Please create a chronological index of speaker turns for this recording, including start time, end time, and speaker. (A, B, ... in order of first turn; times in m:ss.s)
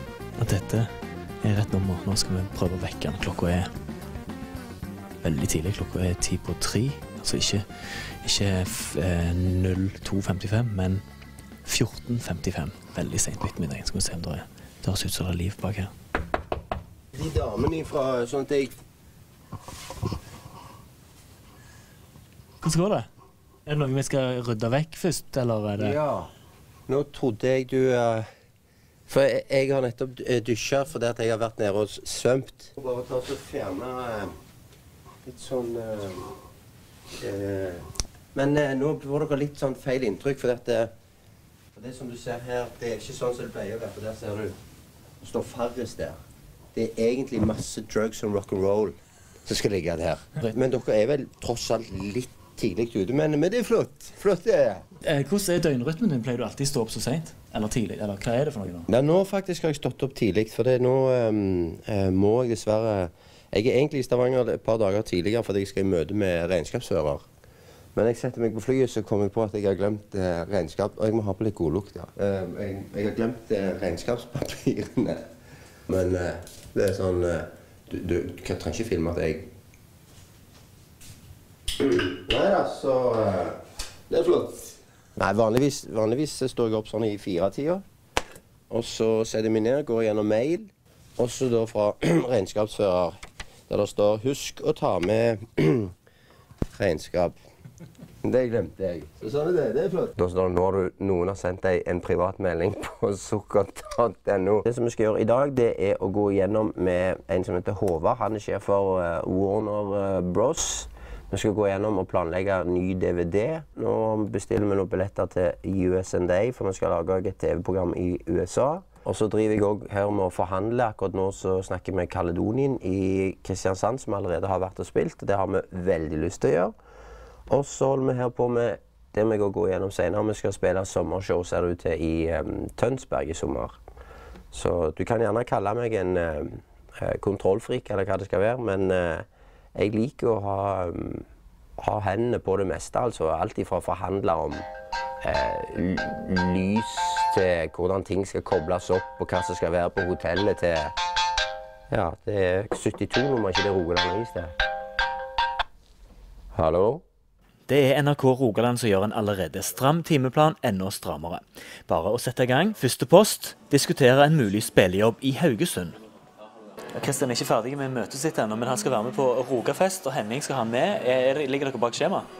0:00.4-0:00.9 A
0:01.4-0:03.7 A
0:05.2-0:11.0 A
0:11.6-0:15.9 A
0:17.1-0:18.7 B
0:22.6-0:23.1 A
0:23.7-0:26.0 A
0:25.8-0:26.3 B
0:26.9-0:28.3 B
0:29.1-0:34.3 B
0:35.2-0:36.3 B
0:37.2-0:40.9 B
0:41.7-0:44.6 B
0:45.2-0:46.2 B
0:46.8-0:54.8 B
0:55.0-0:58.9 A
0:58.9-1:07.2 B
1:07.9-1:15.2 B
1:15.9-1:19.5 B
1:21.8-1:27.8 B
1:28.7-1:33.1 B
1:33.7-1:35.9 B
1:36.7-1:37.4 B
1:38.2-2:06.7 B
2:07.5-2:13.8 B
2:14.5-2:19.2 B
2:19.8-2:21.2 B
2:21.8-2:24.6 B
2:25.2-2:30.9 B
2:31.9-2:34.5 B
2:36.5-2:37.0 B
2:37.7-2:46.0 A
2:46.9-2:52.3 A